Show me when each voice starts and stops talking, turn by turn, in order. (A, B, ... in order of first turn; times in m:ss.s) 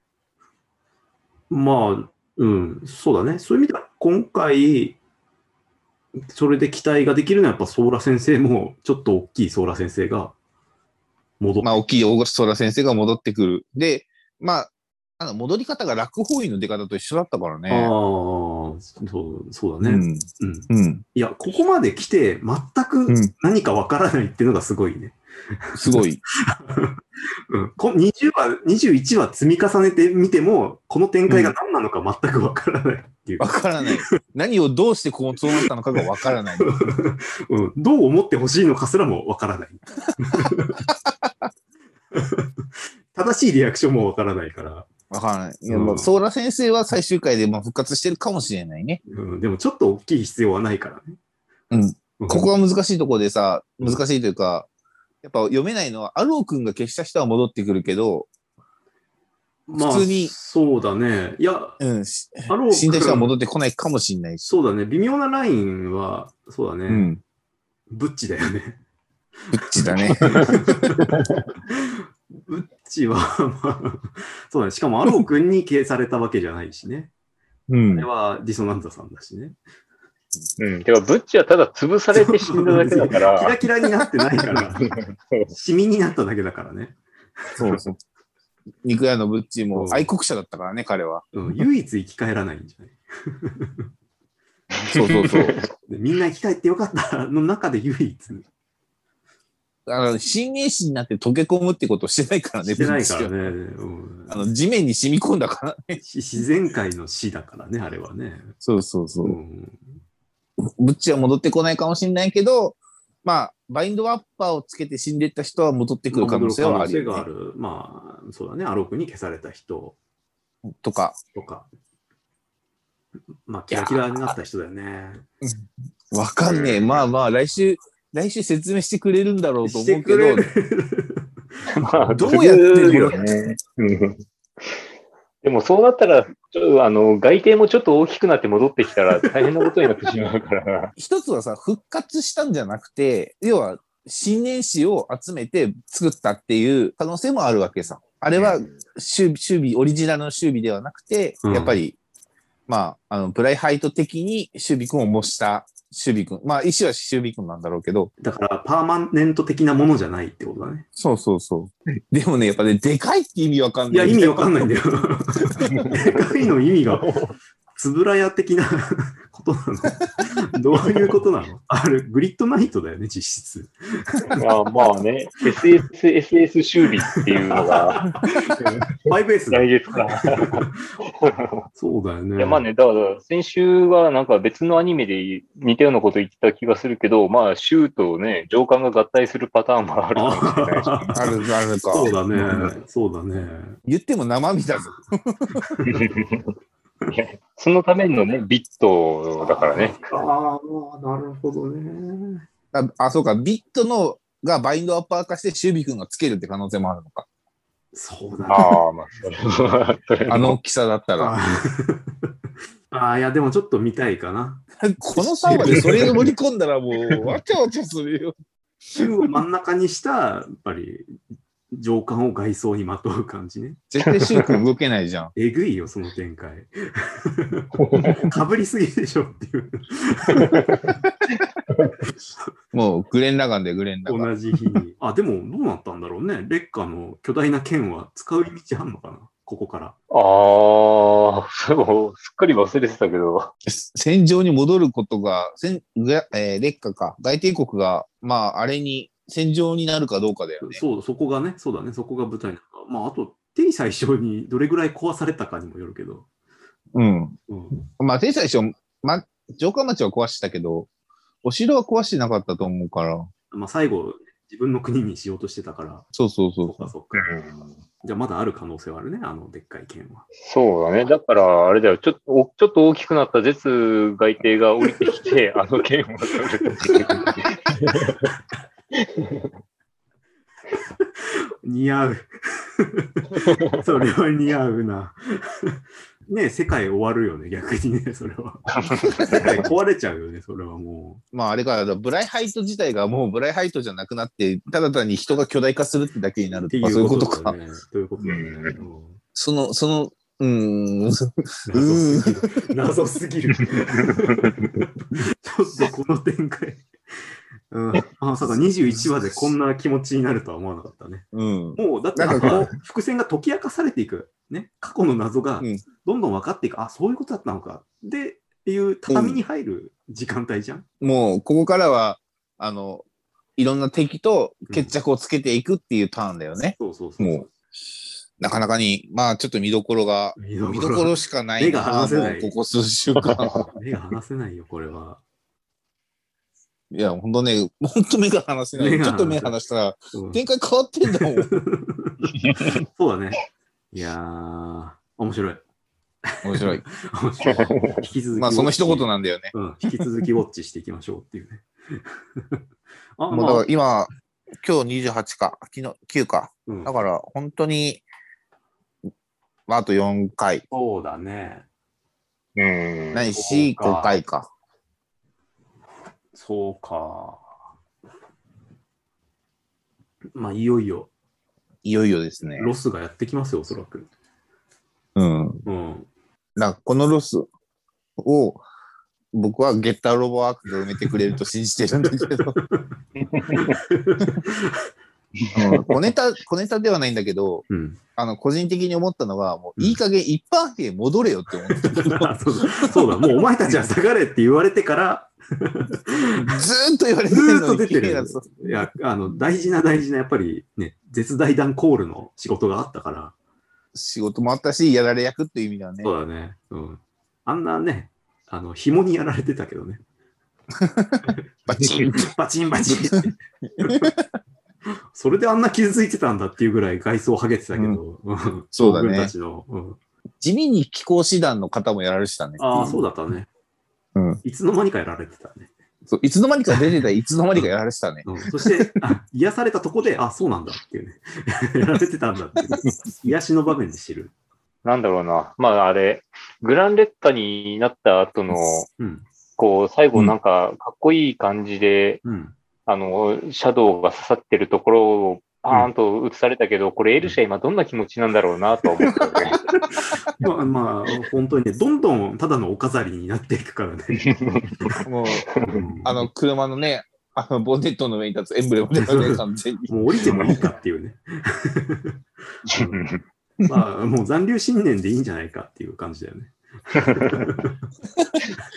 0:01.5-0:05.0 A
0:06.3-0:10.3 A
0:11.4-0:11.8 A
0:11.6-0:17.9 B
0:17.7-0:25.2 A
0:19.8-0:21.0 B
0:25.8-0:26.2 B
0:25.8-0:27.0 A
0:27.5-0:33.5 A
0:31.3-0:31.6 B
0:33.4-0:37.0 B
0:36.6-0:40.9 A
0:40.3-0:41.3 B
0:42.1-0:42.5 A
0:43.1-0:44.9 A
0:45.1-0:49.0 B
0:45.7-0:46.1 A
0:49.1-0:51.2 A
0:51.7-0:54.7 B
0:52.2-0:52.5 A
0:55.2-0:58.3 B
0:59.7-1:01.8 A
0:59.8-1:00.3 B
1:01.8-1:04.6 B
1:02.5-1:03.3 A
1:04.4-1:07.1 A
1:06.9-1:07.2 B
1:07.9-1:08.8 A
1:09.4-1:11.1 A
1:09.5-1:10.5 B
1:10.4-1:11.5 C
1:11.7-1:17.1 A
1:17.7-1:18.1 B
1:17.9-1:19.6 A
1:20.6-1:23.9 C
1:22.1-1:24.9 A
1:24.5-1:25.5 C
1:25.5-1:27.8 A
1:27.6-1:28.0 B
1:28.8-1:31.3 B
1:29.7-1:30.1 A
1:31.3-1:33.9 A
1:34.9-1:35.6 B
1:35.0-1:35.7 C
1:35.9-1:38.5 A
1:39.9-1:43.5 B
1:42.7-1:44.4 A
1:44.3-1:46.0 B
1:46.0-1:48.5 A
1:48.6-1:49.4 B
1:49.2-1:49.8 A
1:50.6-1:57.2 B
1:56.1-2:00.0 A
2:00.7-2:01.2 B
2:01.4-2:01.7 A
2:03.5-2:05.2 A
2:03.7-2:04.0 B
2:05.4-2:10.5 B
2:06.4-2:06.9 C
2:09.6-2:11.2 A
2:11.7-2:14.8 C
2:12.1-2:13.2 B
2:15.4-2:20.9 C
2:21.0-2:32.0 B
2:31.4-2:31.8 A
2:32.7-2:38.1 B
2:38.2-2:40.9 A
2:41.0-2:44.6 B
2:43.9-2:47.1 A
2:45.7-2:46.0 C
2:46.9-2:47.3 C
2:47.7-2:54.4 A
2:54.4-3:01.6 C
2:57.2-3:00.8 A
3:01.8-3:02.6 A
3:02.4-3:11.2 C
3:10.2-3:11.4 A
3:11.2-3:12.7 B
3:11.9-3:13.8 A
3:13.8-3:15.7 B
3:15.6-3:16.1 A
3:15.8-3:16.5 C
3:17.1-3:20.1 C
3:19.4-3:22.4 A
3:22.7-3:27.3 B
3:27.9-3:28.8 A
3:28.5-3:30.6 C
3:30.3-3:31.4 B
3:31.2-3:32.1 A
3:32.9-3:34.6 A
3:34.8-3:38.3 B
3:35.2-3:36.3 A
3:39.0-3:41.2 A
3:41.7-3:43.8 A
3:43.9-3:45.3 B
3:44.0-3:44.6 C
3:45.4-3:50.9 A
3:47.8-3:48.3 C
3:50.4-3:51.0 C
3:51.7-3:52.0 C
3:52.7-3:54.3 B
3:54.1-4:00.0 A
4:00.1-4:03.5 C
4:03.7-4:10.8 B
4:10.6-4:16.3 A
4:17.0-4:17.4 B
4:17.5-4:17.8 A
4:18.0-4:20.9 B
4:21.4-4:23.3 B
4:23.5-4:26.1 A
4:26.1-4:26.9 B
4:26.6-4:27.3 A
4:27.2-4:27.8 C
4:28.0-4:30.2 A
4:30.4-4:38.3 C
4:38.9-4:39.5 C
4:40.8-4:45.8 A
4:43.4-4:43.8 C
4:46.3-4:51.2 A
4:48.8-4:49.4 C
4:49.2-4:49.6 B
4:51.3-4:57.6 B
4:56.7-4:59.2 A
4:58.2-4:58.8 C
4:59.4-5:02.6 B
5:01.7-5:06.9 A
5:04.0-5:04.6 C
5:07.7-5:20.8 A
5:11.3-5:12.7 B
5:19.1-5:19.4 B
5:21.0-5:23.0 B
5:23.6-5:27.5 B
5:24.7-5:24.9 A
5:26.8-5:27.5 A
5:28.4-5:33.6 B
5:30.4-5:32.5 A
5:33.2-5:33.7 C
5:33.6-5:35.2 A
5:36.9-5:41.5 B
5:38.8-5:39.6 A
5:40.1-5:40.4 A
5:41.1-5:45.6 A
5:42.3-5:42.8 C
5:46.3-5:52.6 A
5:46.4-5:46.8 B
5:47.4-5:48.1 C
5:48.4-5:49.5 B
5:53.2-5:53.7 A
5:53.3-5:58.0 B
5:56.7-5:57.0 A
5:59.7-6:00.6 B
6:00.7-6:01.6 A
6:02.6-6:03.3 C
6:03.1-6:04.5 B
6:03.3-6:04.2 A
6:06.3-6:07.4 A
6:10.4-6:11.1 A
6:11.8-6:12.7 B
6:12.6-6:14.1 A
6:15.2-6:15.6 B
6:15.7-6:16.1 A
6:16.6-6:17.5 B
6:18.2-6:18.6 B
6:19.3-6:22.6 B
6:22.6-6:22.9 A
6:23.2-6:23.8 C
6:23.5-6:24.9 A
6:25.4-6:25.9 C
6:25.5-6:33.4 B
6:27.7-6:28.0 A
6:31.7-6:36.5 A
6:36.4-6:38.8 B
6:37.3-6:43.3 A
6:43.9-6:46.1 B
6:46.0-6:50.0 A
6:50.8-6:52.3 B
6:51.3-6:54.1 A
6:52.8-6:53.3 B
6:53.8-6:54.3 B
6:55.1-7:00.0 A
6:57.8-6:58.0 B
6:58.8-6:59.3 B
7:00.4-7:03.0 B
7:02.6-7:03.5 A
7:04.2-7:04.4 B
7:04.4-7:05.7 A
7:06.1-7:09.0 B
7:08.2-7:14.3 A
7:14.8-7:18.9 C
7:19.0-7:19.3 A
7:19.6-7:22.2 C
7:22.2-7:22.6 A
7:22.9-7:29.7 C
7:29.8-7:34.3 A
7:34.2-7:35.8 C
7:35.0-7:35.5 B
7:35.6-7:36.2 A
7:36.0-7:40.7 B
7:39.0-7:43.1 A
7:42.7-7:43.2 C
7:43.6-7:47.8 A
7:47.0-7:47.4 C